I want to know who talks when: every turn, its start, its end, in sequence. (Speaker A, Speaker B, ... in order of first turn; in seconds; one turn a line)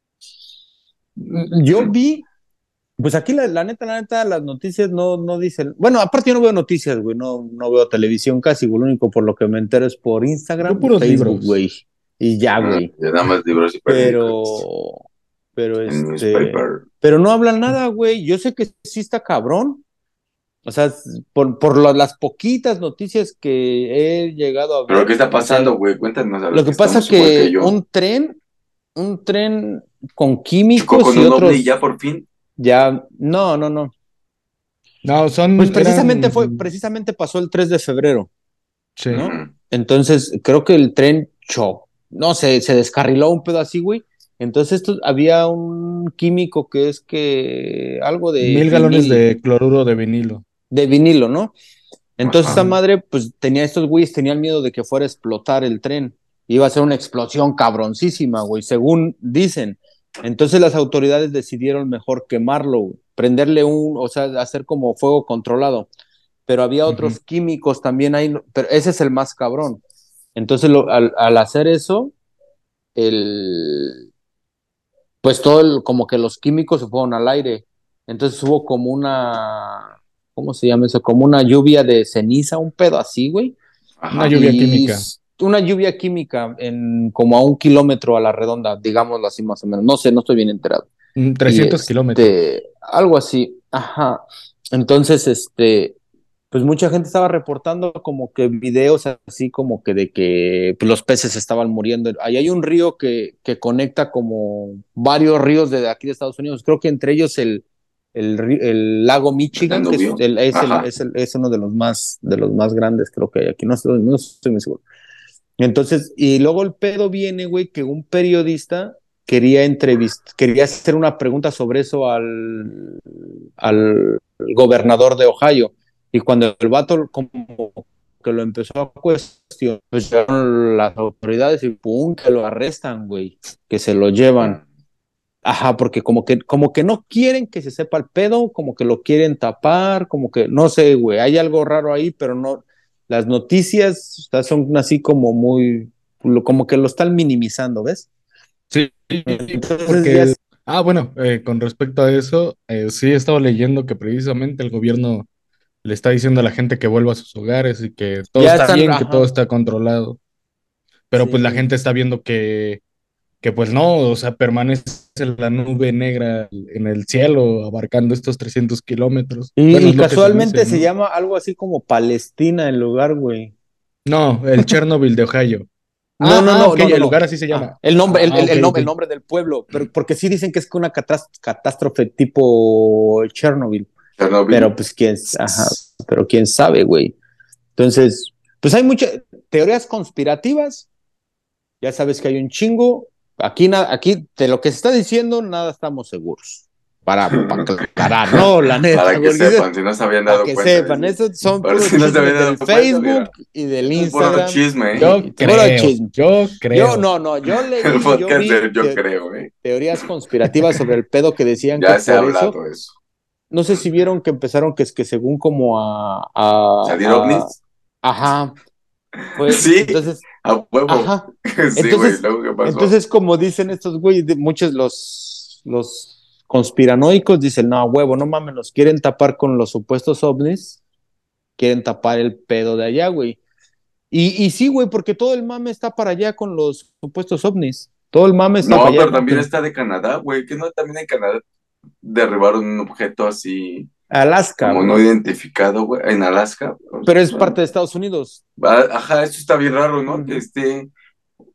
Speaker A: 1.2-2.2
Speaker A: 3.0-12.9
Speaker B: 10.6-11.6
Speaker C: 12.6-14.6
Speaker A: 13.9-15.0
Speaker A: 15.6-19.8
Speaker C: 15.9-16.8
Speaker A: 20.6-25.7
Speaker C: 24.9-27.7
Speaker A: 26.5-28.4
Speaker A: 28.9-31.7
Speaker C: 30.8-32.2
Speaker A: 32.6-33.9
Speaker B: 35.0-36.6
Speaker A: 35.6-38.3
Speaker B: 39.0-39.3
Speaker A: 39.1-49.2
Speaker C: 39.1-39.5
Speaker B: 48.4-50.4
Speaker A: 50.7-51.5
Speaker A: 52.2-65.9
Speaker C: 52.2-52.6
Speaker B: 52.5-52.7
Speaker A: 66.5-69.8
Speaker B: 66.9-67.2
Speaker A: 70.3-72.1
Speaker A: 73.0-74.0
Speaker A: 75.2-83.5
Speaker C: 84.0-84.4
Speaker B: 84.1-85.0
Speaker A: 84.3-90.9
Speaker B: 91.2-92.3
Speaker A: 91.5-96.0
Speaker A: 96.5-114.8
Speaker C: 109.5-110.9
Speaker A: 115.6-123.0
Speaker A: 123.6-134.6
Speaker A: 135.4-148.1
Speaker B: 148.7-155.3
Speaker A: 149.3-150.4
Speaker B: 155.8-160.2
Speaker A: 158.3-159.3
Speaker B: 161.1-162.8
Speaker A: 161.1-161.7
Speaker B: 163.4-170.9
Speaker A: 169.6-173.5
Speaker B: 174.1-175.7
Speaker A: 176.2-183.9
Speaker B: 176.2-178.9
Speaker C: 184.2-184.7
Speaker A: 184.5-187.2
Speaker C: 185.3-185.7
Speaker A: 187.8-190.9
Speaker A: 191.8-199.7
Speaker C: 197.4-203.3
Speaker A: 200.3-206.1
Speaker C: 203.9-205.1
Speaker B: 204.9-207.0
Speaker A: 206.7-209.0
Speaker C: 207.8-209.5
Speaker A: 209.6-212.6
Speaker C: 211.8-212.9
Speaker A: 213.5-218.5
Speaker C: 216.8-217.6
Speaker A: 219.3-220.2
Speaker C: 219.4-222.9
Speaker A: 220.9-230.8
Speaker A: 231.6-233.4
Speaker A: 234.1-239.4
Speaker C: 238.6-241.4
Speaker C: 242.0-243.9
Speaker A: 244.1-245.0
Speaker C: 244.6-247.6
Speaker A: 247.0-248.4
Speaker C: 248.6-250.9
Speaker A: 250.1-250.4